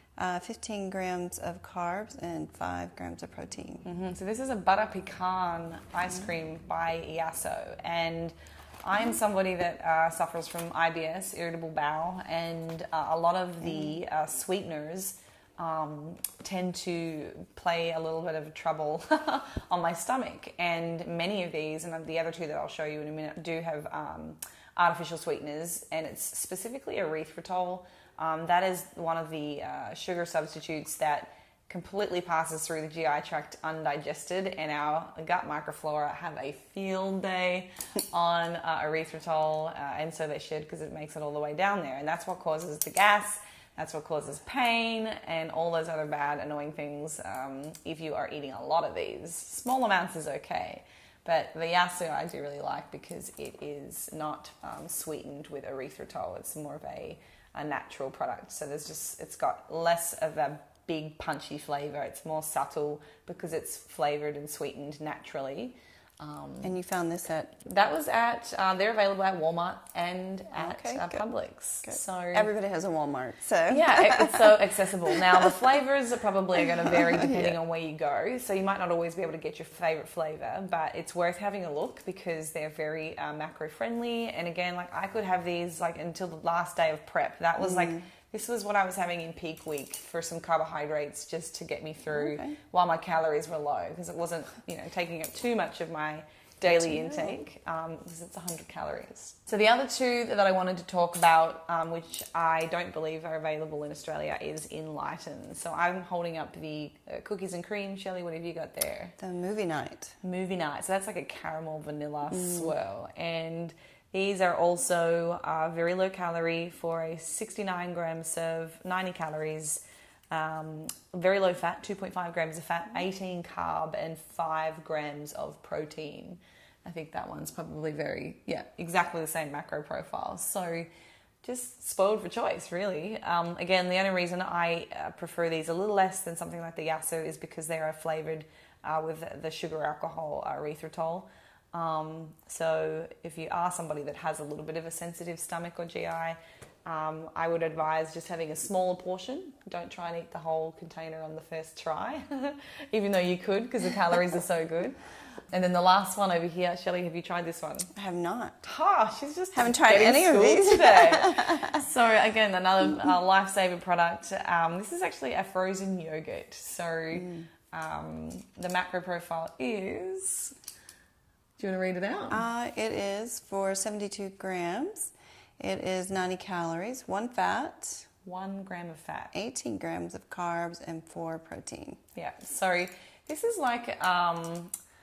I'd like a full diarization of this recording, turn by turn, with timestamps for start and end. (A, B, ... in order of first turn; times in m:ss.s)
0:00.2-0:03.8 A
0:03.8-1:06.7 B
1:06.6-1:07.6 A
1:07.6-1:12.5 B
1:10.5-1:11.2 A
1:11.8-1:14.6 A
1:13.7-1:49.1 B
1:16.8-1:17.6 A
1:27.6-1:28.0 A
1:32.1-1:32.6 A
1:36.6-1:37.3 A
1:49.2-1:50.1 A
1:50.2-2:10.9 B
1:52.4-1:52.7 A
2:11.4-2:35.0 B
2:35.5-2:37.9 B
2:38.0-2:38.6 A
2:38.6-2:50.6 B
2:39.5-2:41.8 A
2:47.2-2:47.5 A
2:51.6-2:52.4 B
2:52.3-2:58.1 A
2:58.2-2:59.3 B
2:59.3-3:02.0 A
3:02.2-3:04.7 B